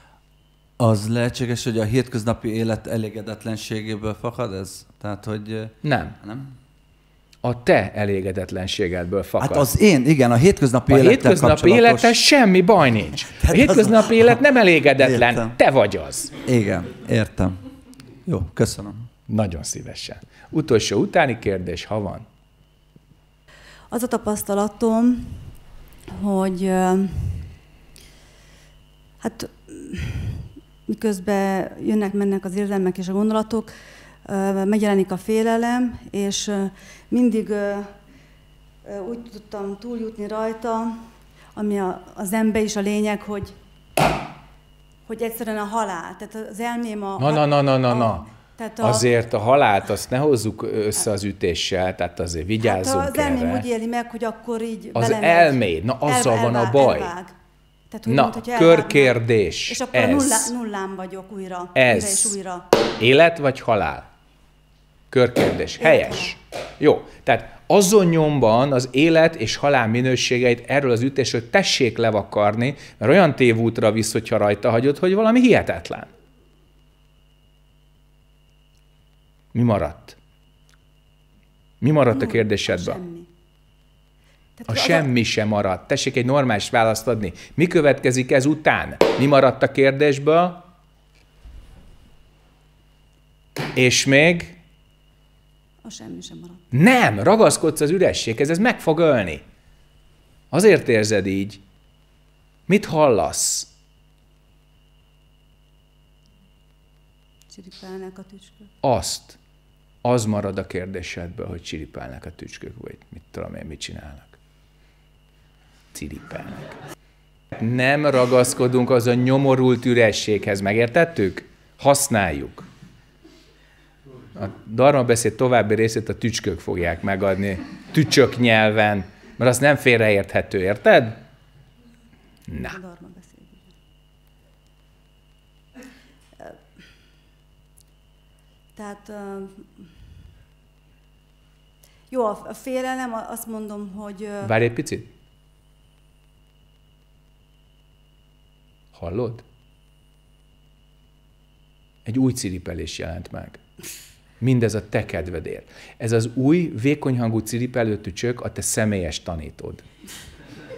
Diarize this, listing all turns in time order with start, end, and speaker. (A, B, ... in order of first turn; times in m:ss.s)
0:00.8-0:06.5 A
0:05.8-0:06.2 B
0:07.4-0:09.7 B
0:09.4-0:12.2 A
0:10.9-0:16.3 B
0:13.3-0:14.4 A
0:15.0-0:15.6 A
0:16.4-0:17.6 A
0:18.2-0:19.1 A
0:19.3-0:22.2 B
0:23.9-0:25.5 C
0:26.1-0:27.5 C
0:29.2-0:37.9 C
0:38.8-0:43.6 C
0:45.0-0:49.1 C
0:47.2-0:48.3 B
0:48.8-0:53.6 B
0:52.6-0:57.3 C
0:54.9-0:57.1 B
0:57.9-1:02.7 C
0:58.0-1:00.5 B
1:01.7-1:02.4 B
1:03.0-1:04.1 B
1:05.1-1:16.1 B
1:05.8-1:06.4 C
1:19.5-1:20.2 B
1:21.8-1:23.0 B
1:22.1-1:23.3 C
1:24.6-1:25.1 C
1:24.7-1:30.6 B
1:33.7-1:34.6 B
1:35.8-1:36.6 C
1:36.7-1:39.4 B
1:40.5-1:41.6 B
1:42.7-1:43.7 B
1:47.5-1:48.7 C
1:48.8-1:49.4 B
1:50.0-1:54.4 B
1:55.9-1:56.8 B
1:57.6-2:02.7 B
2:04.3-2:11.2 B
2:12.5-2:12.8 B
2:12.5-2:13.7 C
2:18.8-2:19.9 C
2:22.1-2:24.5 C
2:24.4-2:25.1 B
2:28.9-2:29.4 B
2:32.0-2:33.6 B
2:34.4-2:39.8 B